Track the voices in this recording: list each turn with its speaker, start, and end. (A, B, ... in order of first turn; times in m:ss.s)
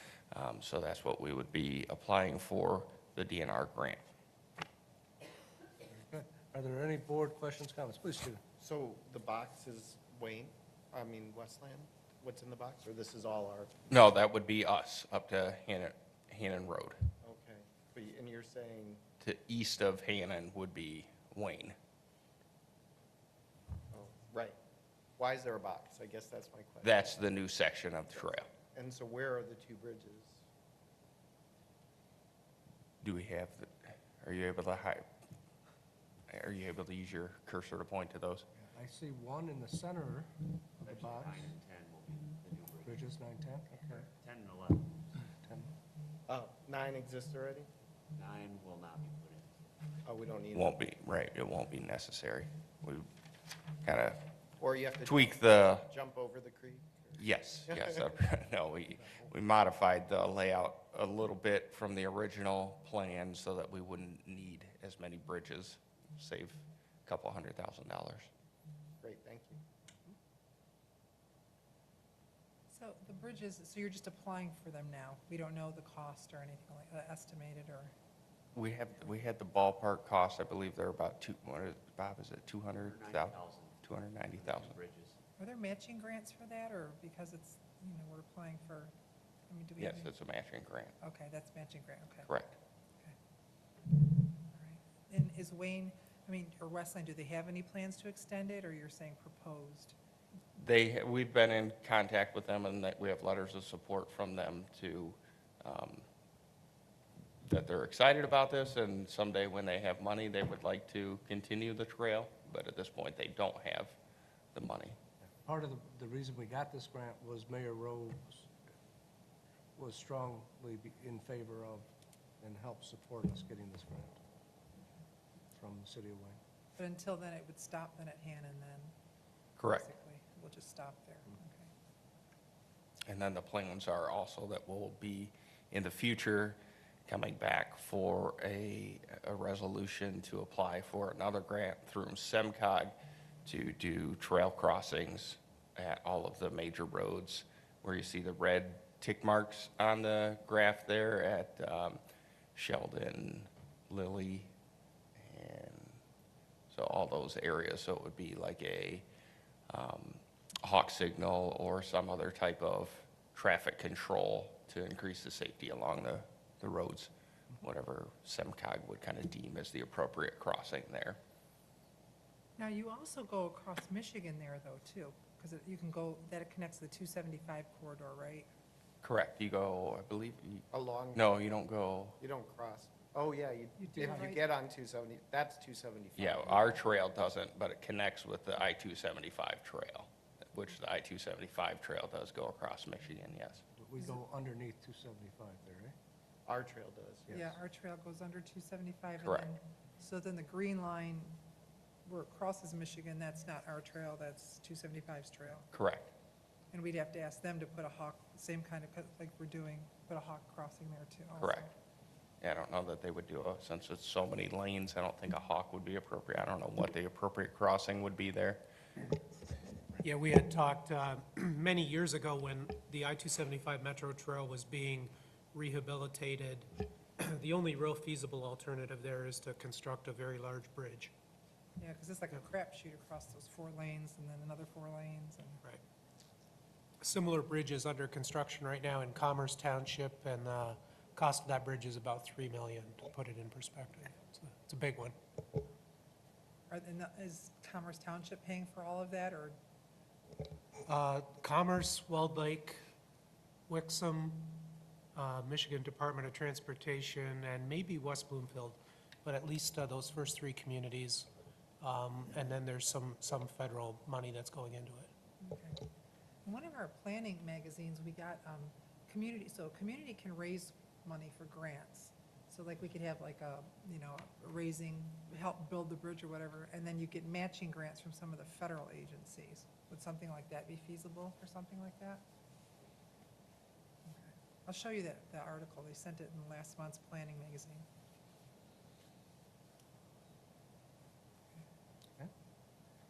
0:00.3-0:04.1 A
0:06.0-0:08.4 B
0:08.6-0:13.7 C
0:13.9-0:17.0 A
0:17.2-0:19.0 C
0:19.2-0:21.8 A
0:23.9-0:24.6 C
0:25.2-0:27.2 C
0:26.8-0:28.5 A
0:28.2-0:30.4 C
0:33.0-0:35.1 A
0:36.3-0:38.5 A
0:38.6-0:41.6 B
0:40.8-0:43.1 D
0:42.8-0:44.0 B
0:44.0-0:45.0 D
0:45.2-0:45.7 B
0:46.3-0:47.7 C
0:48.2-0:49.5 D
0:50.0-0:50.8 C
0:50.6-0:53.1 A
0:53.8-0:54.2 A
0:54.6-0:57.9 C
0:55.0-0:55.9 A
0:57.2-1:08.3 A
1:09.0-1:09.6 C
1:12.7-1:17.9 E
1:18.6-1:24.8 A
1:22.8-1:23.8 D
1:24.3-1:25.2 D
1:25.4-1:28.9 E
1:29.5-1:30.2 E
1:29.8-1:31.0 A
1:31.0-1:32.3 E
1:32.3-1:32.6 A
1:34.0-1:40.0 E
1:40.6-1:46.1 A
1:47.4-1:54.0 A
1:54.6-1:55.0 A
1:55.4-1:58.5 B
1:59.8-2:01.9 B
2:02.4-2:04.2 B
2:05.6-2:06.4 B
2:06.8-2:08.9 E
2:09.6-2:09.9 A
2:09.6-2:11.7 E
2:13.1-2:32.0 A
2:32.6-2:34.5 A
2:35.2-2:36.0 A
2:36.7-2:39.0 A
2:39.7-2:51.2 A
2:52.6-2:58.5 E
2:59.0-3:02.2 A
3:00.7-3:01.2 C
3:02.2-3:06.8 C
3:03.8-3:04.5 E
3:06.2-3:13.6 A
3:13.8-3:16.0 B
3:16.5-3:17.6 C
3:17.3-3:21.4 E
3:19.2-3:19.5 A
3:22.1-3:25.7 E
3:25.7-3:26.1 A
3:26.7-3:31.7 E
3:31.4-3:31.7 A
3:32.4-3:38.6 A
3:40.0-3:51.1 F
3:51.8-3:55.6 E
3:57.0-4:05.2 F
4:06.7-4:09.6 E
4:10.9-4:12.8 F
4:13.7-4:21.3 F
4:21.8-4:25.1 F
4:25.4-4:25.8 E
4:26.4-4:42.2 E
4:44.1-4:47.8 E